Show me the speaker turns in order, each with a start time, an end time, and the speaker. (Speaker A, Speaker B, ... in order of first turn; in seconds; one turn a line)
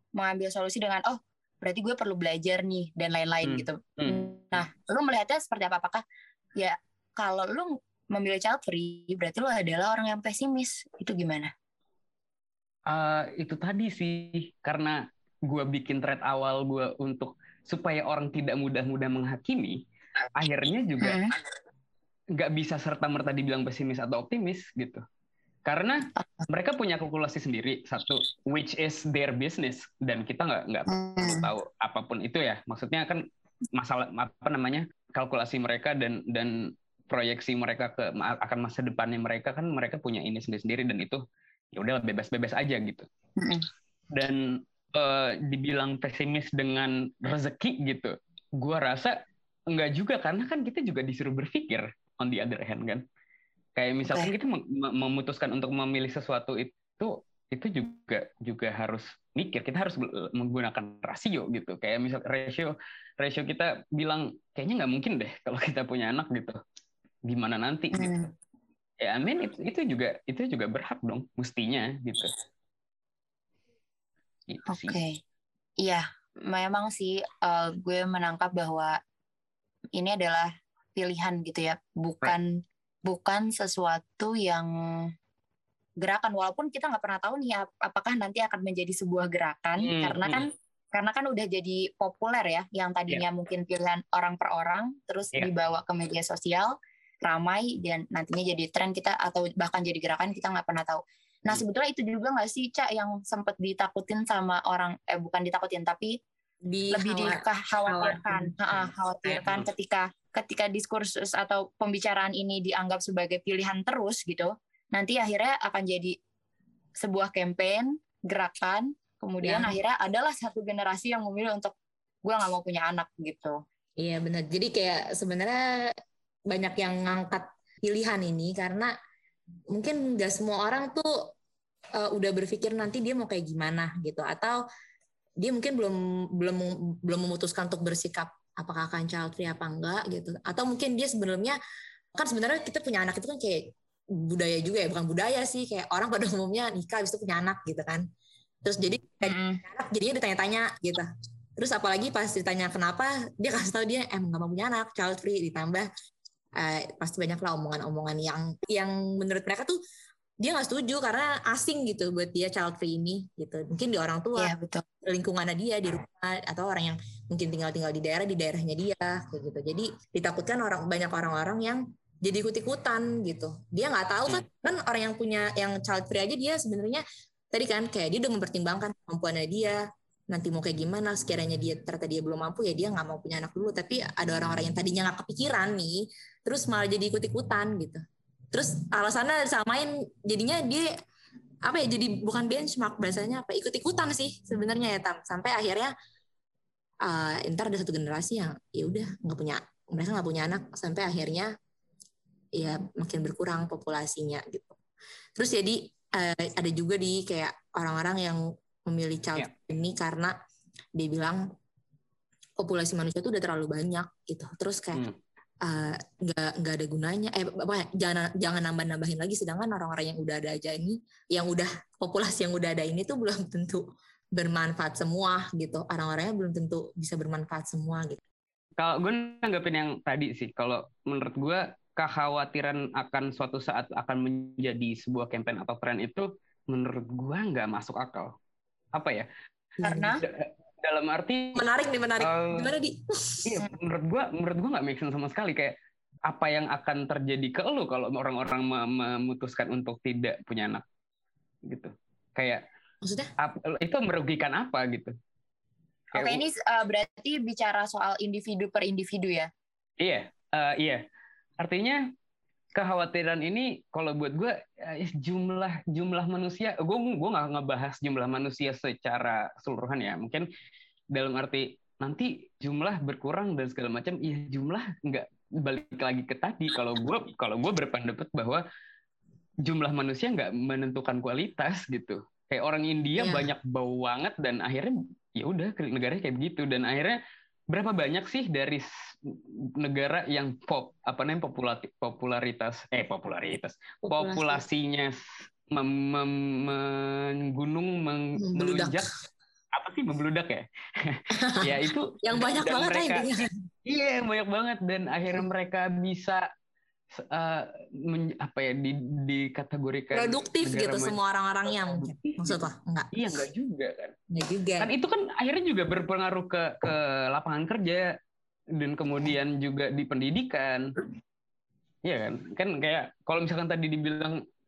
Speaker A: 0.1-6.0
Speaker B: 3.4-4.6
Speaker A: 6.6-11.5
Speaker B: 12.9-19.8
Speaker B: 20.3-21.2
Speaker A: 21.0-21.3
Speaker B: 22.3-25.0
Speaker B: 25.6-41.2
Speaker A: 30.9-31.5
Speaker B: 41.7-43.0
Speaker A: 43.4-43.7
Speaker B: 44.1-49.1
Speaker B: 49.7-53.0
Speaker B: 53.8-66.6
Speaker B: 67.3-68.2
Speaker A: 67.9-68.3
Speaker B: 69.0-72.3
Speaker B: 74.5-75.0
Speaker A: 74.7-75.2
Speaker A: 75.8-79.0
Speaker A: 80.0-84.7
Speaker A: 86.0-106.1
Speaker B: 89.8-90.5
Speaker C: 106.7-108.5
Speaker A: 106.9-116.1
Speaker A: 117.0-121.7
Speaker C: 119.4-119.8
Speaker A: 122.2-123.6
Speaker C: 124.0-125.9
Speaker C: 126.5-128.9
Speaker C: 129.7-131.3
Speaker C: 132.0-134.6
Speaker C: 135.4-141.6
Speaker C: 142.1-148.0
Speaker C: 148.6-155.9
Speaker A: 149.2-149.6
Speaker C: 156.6-159.8
Speaker C: 160.4-164.5
Speaker A: 164.3-164.8
Speaker C: 165.0-190.9
Speaker C: 191.6-195.9
Speaker C: 197.0-201.5
Speaker C: 202.6-204.8
Speaker C: 205.4-210.3
Speaker C: 210.9-211.4
Speaker C: 212.6-215.0
Speaker C: 215.6-228.2
Speaker B: 228.8-238.3
Speaker B: 238.9-239.3
Speaker C: 239.8-240.2
Speaker A: 239.8-240.2
Speaker B: 240.2-241.7
Speaker C: 241.5-243.6
Speaker B: 242.2-242.7
Speaker B: 243.4-245.8
Speaker B: 246.3-250.8
Speaker B: 251.7-252.6
Speaker C: 253.0-253.3
Speaker B: 253.4-255.1
Speaker B: 256.1-256.4
Speaker A: 256.1-259.5
Speaker B: 260.0-261.0
Speaker B: 261.6-262.0
Speaker B: 262.8-270.5
Speaker B: 271.1-278.6
Speaker B: 279.6-287.2
Speaker C: 283.2-283.5
Speaker B: 287.7-299.0
Speaker C: 294.0-294.6
Speaker C: 298.4-299.0
Speaker B: 299.7-303.3
Speaker C: 301.3-303.6
Speaker B: 303.8-306.4
Speaker B: 307.1-311.2
Speaker C: 310.1-313.2
Speaker B: 311.7-312.6
Speaker B: 313.1-314.1
Speaker C: 314.3-314.9
Speaker B: 314.8-318.1
Speaker B: 318.8-321.0
Speaker B: 322.0-324.4